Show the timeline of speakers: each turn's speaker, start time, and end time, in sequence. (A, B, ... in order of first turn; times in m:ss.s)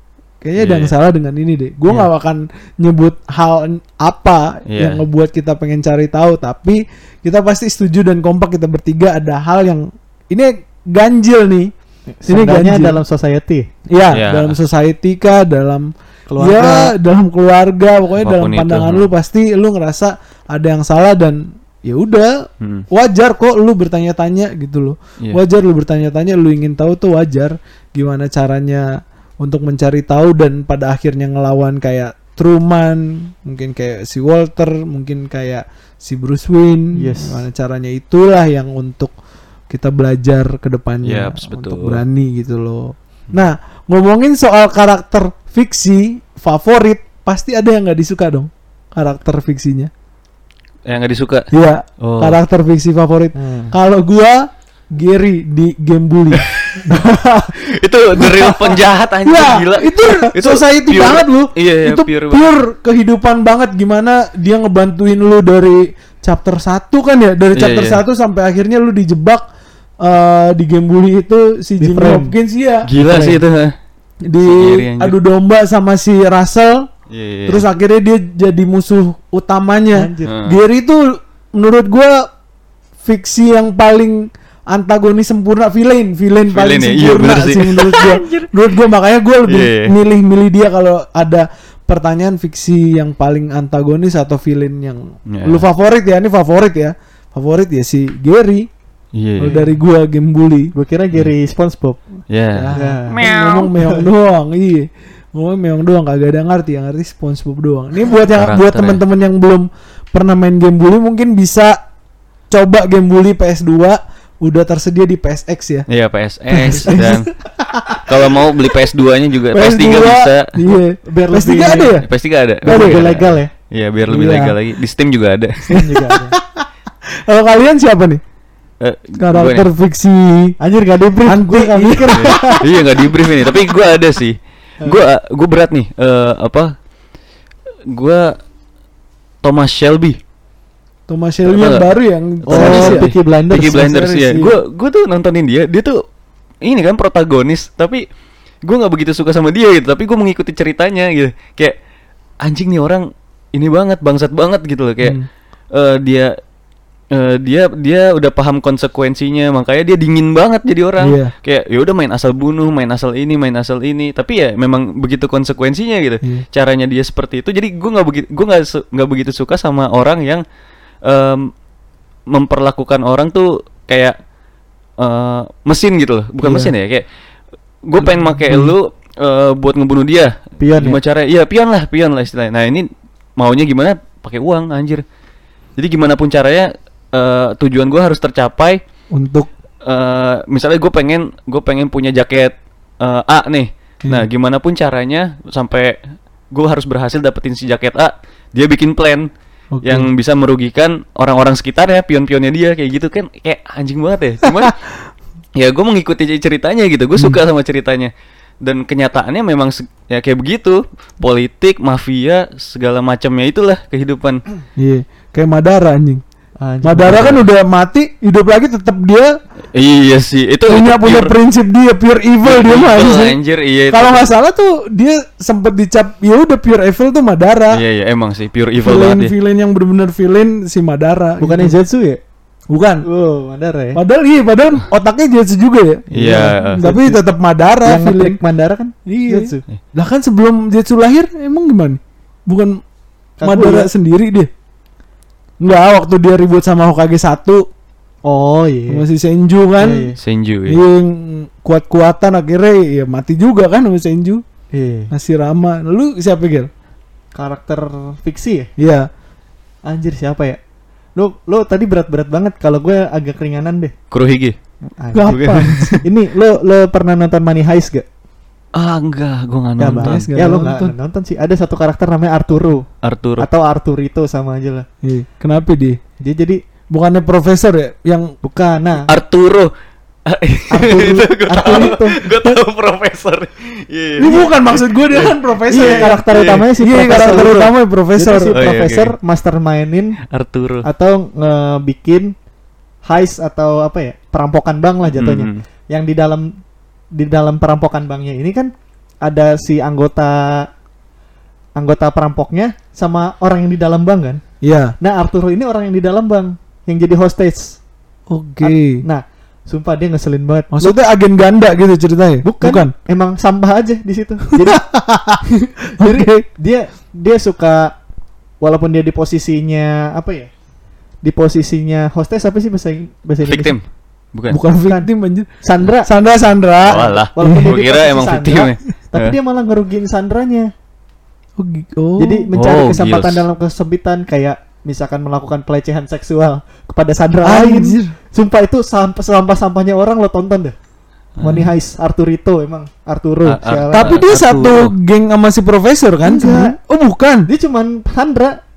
0:00.4-0:11.7 A
0:00.6-0:00.9 B
0:04.7-0:05.0 B
0:12.2-0:13.7 C
0:12.3-0:13.0 A
0:13.9-0:39.2 A
0:14.1-0:14.6 B
0:16.3-0:16.9 C
0:18.2-0:19.1 B
0:22.6-0:22.9 B
0:36.9-0:37.4 C
0:39.7-0:49.9 A
0:41.0-0:42.0 B
0:50.9-0:51.5 B
0:51.5-0:56.5 A
0:52.0-0:52.4 B
0:53.4-0:53.7 C
0:56.3-0:57.0 B
0:56.9-0:57.6 C
0:57.6-1:02.6 B
0:59.2-1:09.4 A
1:07.5-1:08.0 B
1:10.0-1:12.9 A
1:11.8-1:12.4 C
1:12.9-1:13.7 B
1:13.0-1:13.4 C
1:14.3-1:16.9 A
1:14.4-1:15.2 B
1:17.1-1:17.6 B
1:17.5-1:22.3 A
1:20.0-1:20.4 C
1:20.2-1:20.6 B
1:23.0-1:38.7 A
1:26.5-1:28.5 B
1:29.5-1:29.9 B
1:35.3-1:35.6 B
1:39.2-1:39.6 B
1:39.4-1:40.7 A
1:40.7-1:42.2 C
1:42.3-1:43.7 B
1:42.6-1:51.8 A
1:42.7-1:44.1 C
1:48.4-1:49.0 B
1:52.5-1:55.9 A
1:55.9-1:57.3 B
1:56.5-1:57.0 C
1:56.7-1:57.3 A
1:58.0-2:00.6 B
1:59.5-2:02.1 A
2:01.1-2:02.0 C
2:02.0-2:05.7 B
2:02.6-2:03.0 A
2:02.6-2:03.5 C
2:04.1-2:04.6 A
2:05.7-2:06.4 C
2:05.7-2:06.7 A
2:07.2-2:08.2 A
2:08.8-2:09.7 B
2:09.2-2:10.6 A
2:10.6-2:12.7 C
2:11.3-2:12.6 A
2:12.1-2:16.8 B
2:17.9-2:18.4 B
2:19.4-2:20.2 B
2:21.1-2:24.5 A
2:21.4-2:21.9 B
2:22.4-2:26.0 B
2:22.5-2:24.0 C
2:26.6-2:28.0 B
2:28.6-2:31.8 B
2:32.4-2:35.2 B
2:35.0-2:35.3 A
2:35.7-2:36.4 B
2:37.1-2:50.4 B
2:41.0-2:41.3 A
2:51.0-2:51.5 B
2:52.3-2:54.2 B
2:55.0-2:57.0 B
2:56.4-2:56.7 C
2:57.8-3:05.0 B
2:58.1-2:58.7 A
3:00.6-3:01.0 C
3:05.8-3:08.8 B
3:09.1-3:09.5 A
3:09.8-3:16.0 B
3:16.5-3:19.3 B
3:19.7-3:20.1 A
3:19.8-3:24.8 B
3:25.6-3:28.1 B
3:28.6-3:34.4 B
3:34.8-3:36.2 A
3:36.6-3:37.3 C
3:36.8-3:39.3 A
3:37.0-3:37.4 B
3:39.7-3:41.3 B
3:40.7-3:43.4 A
3:42.4-3:44.3 B
3:43.9-3:47.8 A
3:47.7-3:49.3 B
3:48.8-3:51.7 A
3:51.4-3:52.2 C
3:52.7-3:53.0 A
3:53.0-3:54.0 C
3:54.0-3:58.4 A
3:56.1-3:56.8 B
3:56.2-3:57.2 C
3:57.8-3:59.6 C
3:59.1-4:02.8 A
4:03.4-4:03.9 C
4:03.4-4:04.5 A
4:05.6-4:07.7 A
4:08.2-4:09.0 C
4:08.9-4:10.1 A
4:09.8-4:10.2 C
4:10.2-4:10.8 B
4:10.7-4:14.4 A
4:14.7-4:15.1 C
4:15.1-4:16.7 A
4:17.4-4:18.7 C
4:18.8-4:19.1 A
4:19.8-4:20.6 C
4:21.2-4:23.9 C
4:24.1-4:24.6 B
4:25.0-4:28.0 C
4:25.1-4:26.0 A
4:25.3-4:25.8 B
4:28.8-4:30.2 B
4:29.8-4:34.9 C
4:29.9-4:30.9 A
4:33.0-4:33.5 B
4:35.0-4:36.0 A
4:36.2-4:36.6 C
4:36.9-4:38.3 A
4:38.4-4:39.1 C
4:39.1-4:39.7 B
4:40.3-4:47.4 B
4:40.7-4:42.6 C
4:44.2-4:48.6 A
4:45.7-4:50.2 C
4:48.5-4:49.1 B
4:50.3-4:50.9 B
4:50.8-4:52.3 C
4:53.0-4:56.5 C
4:55.1-4:55.6 B
4:57.1-4:58.7 C
4:59.2-5:00.7 C
5:01.8-5:04.4 C
5:04.6-5:05.0 A
5:05.0-5:07.8 C
5:08.3-5:09.0 A
5:08.6-5:11.0 C
5:10.7-5:12.9 A
5:12.4-5:14.9 C
5:14.6-5:15.4 A
5:16.0-5:16.5 A
5:16.0-5:18.0 C
5:18.6-5:20.5 C
5:21.2-5:23.8 C
5:23.5-5:24.6 B
5:24.5-5:25.5 A
5:25.6-5:26.2 C
5:26.1-5:27.7 A
5:26.9-5:29.4 B
5:27.3-5:30.7 C
5:31.6-5:32.5 A
5:32.2-5:40.8 C
5:32.5-5:33.4 B
5:37.4-5:38.1 A
5:41.4-5:41.7 B
5:41.4-5:44.2 C
5:43.5-5:44.9 B
5:43.9-5:47.5 A
5:46.2-5:46.8 C
5:47.5-5:48.6 C